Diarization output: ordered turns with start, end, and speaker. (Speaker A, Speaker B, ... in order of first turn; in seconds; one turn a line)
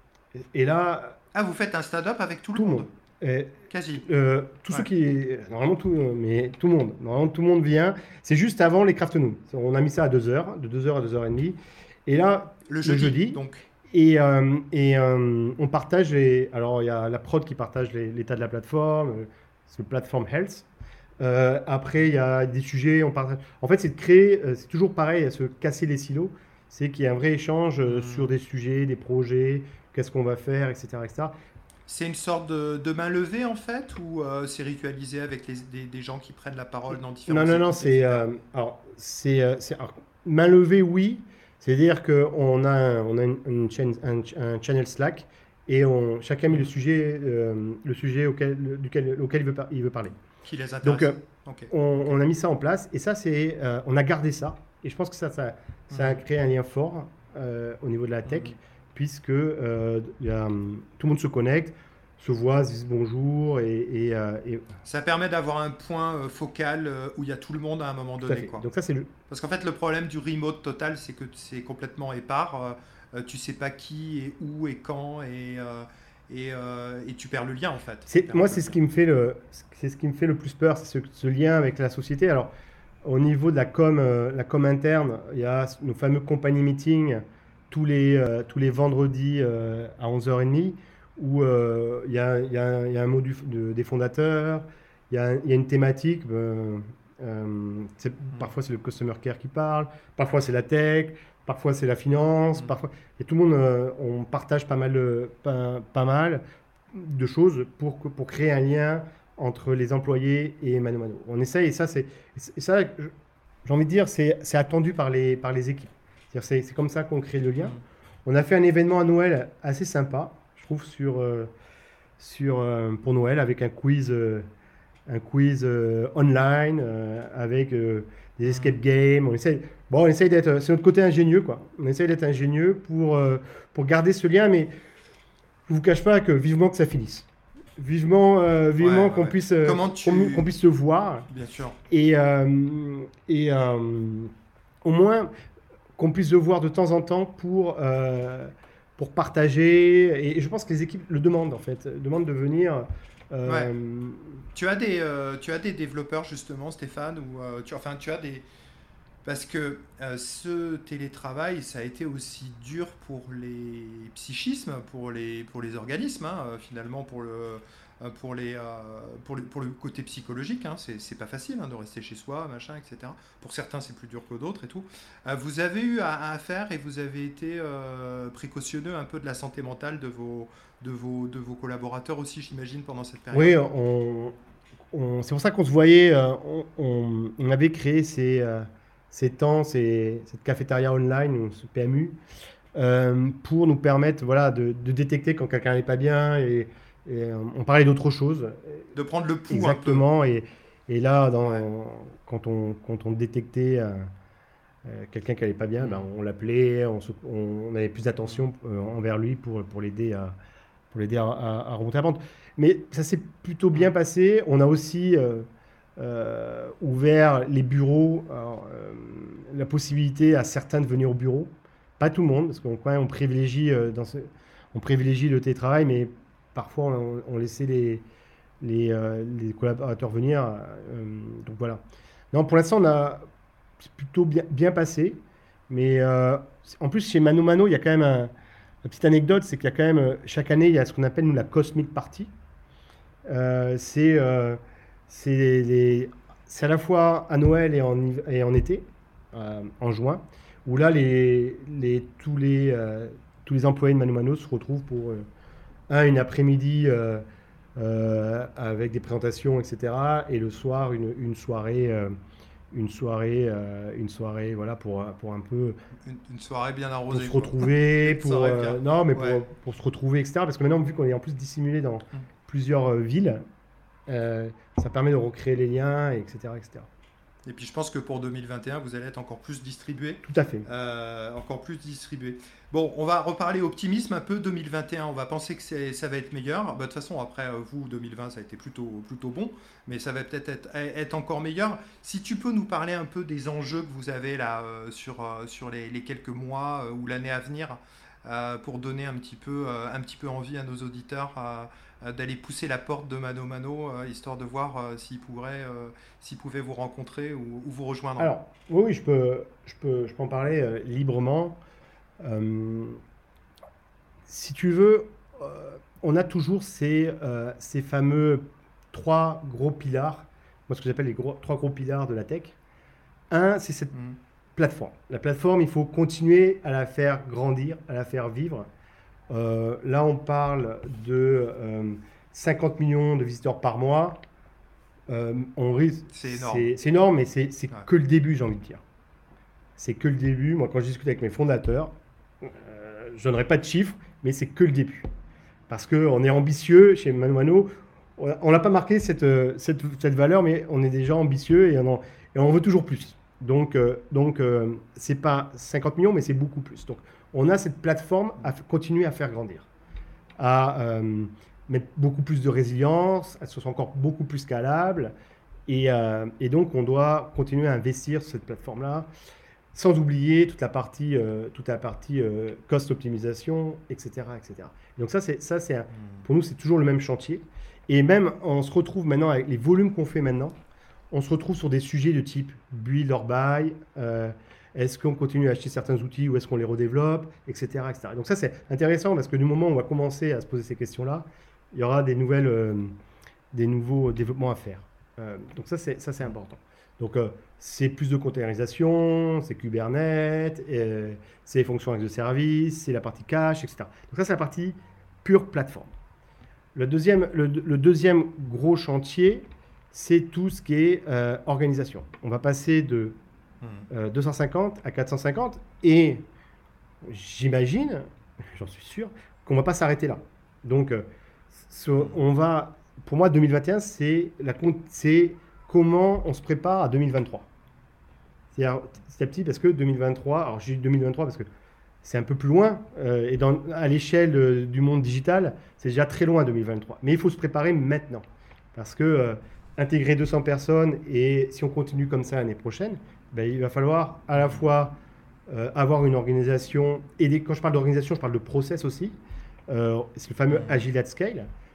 Speaker A: 0.3-1.2
Speaker B: 1.3-2.9
Speaker A: 2.5-20.7
Speaker B: 3.7-4.0
Speaker B: 12.7-13.6
Speaker A: 21.2-31.3
Speaker B: 27.9-28.3
Speaker B: 31.9-38.2
Speaker A: 37.3-50.2
Speaker B: 50.4-52.1
Speaker A: 50.8-51.1
Speaker A: 51.7-64.7
Speaker B: 55.9-56.2
Speaker B: 58.3-58.5
Speaker B: 64.8-68.7
Speaker A: 68.2-69.1
Speaker B: 69.3-78.7
Speaker A: 78.1-82.5
Speaker A: 83.0-113.1
Speaker A: 113.6-121.5
Speaker A: 122.2-124.5
Speaker A: 125.1-134.7
Speaker B: 128.4-128.8
Speaker A: 135.7-141.3
Speaker B: 138.8-140.5
Speaker B: 141.3-141.8
Speaker A: 141.9-144.3
Speaker A: 144.8-145.3
Speaker A: 146.0-154.4
Speaker B: 154.5-158.4
Speaker B: 159.2-183.6
Speaker A: 183.3-184.3
Speaker A: 184.9-192.2
Speaker A: 192.8-198.9
Speaker B: 198.9-200.1
Speaker A: 199.5-204.1
Speaker A: 204.8-210.3
Speaker A: 210.9-228.0
Speaker A: 228.6-231.8
Speaker A: 232.3-233.2
Speaker A: 233.8-238.3
Speaker A: 238.8-242.3
Speaker A: 243.2-255.2
Speaker A: 255.9-257.2
Speaker A: 257.8-262.1
Speaker A: 262.7-265.8
Speaker B: 266.0-269.4
Speaker A: 267.1-273.4
Speaker A: 274.1-276.9
Speaker B: 277.4-308.3
Speaker A: 280.2-280.6
Speaker A: 308.2-311.6
Speaker A: 312.2-313.0
Speaker A: 314.3-322.6
Speaker A: 323.3-323.9
Speaker A: 324.6-328.7
Speaker A: 329.3-334.2
Speaker A: 335.1-338.8
Speaker B: 336.1-336.7
Speaker A: 339.8-345.1
Speaker A: 345.7-359.7
Speaker A: 360.4-365.1
Speaker A: 365.7-369.1
Speaker A: 369.7-380.6
Speaker B: 375.9-376.2
Speaker A: 381.1-392.9
Speaker A: 393.5-405.9
Speaker A: 406.7-413.2
Speaker B: 413.6-413.9
Speaker A: 413.9-416.2
Speaker A: 417.0-427.5
Speaker A: 428.5-431.5
Speaker A: 432.0-451.5
Speaker B: 450.5-450.8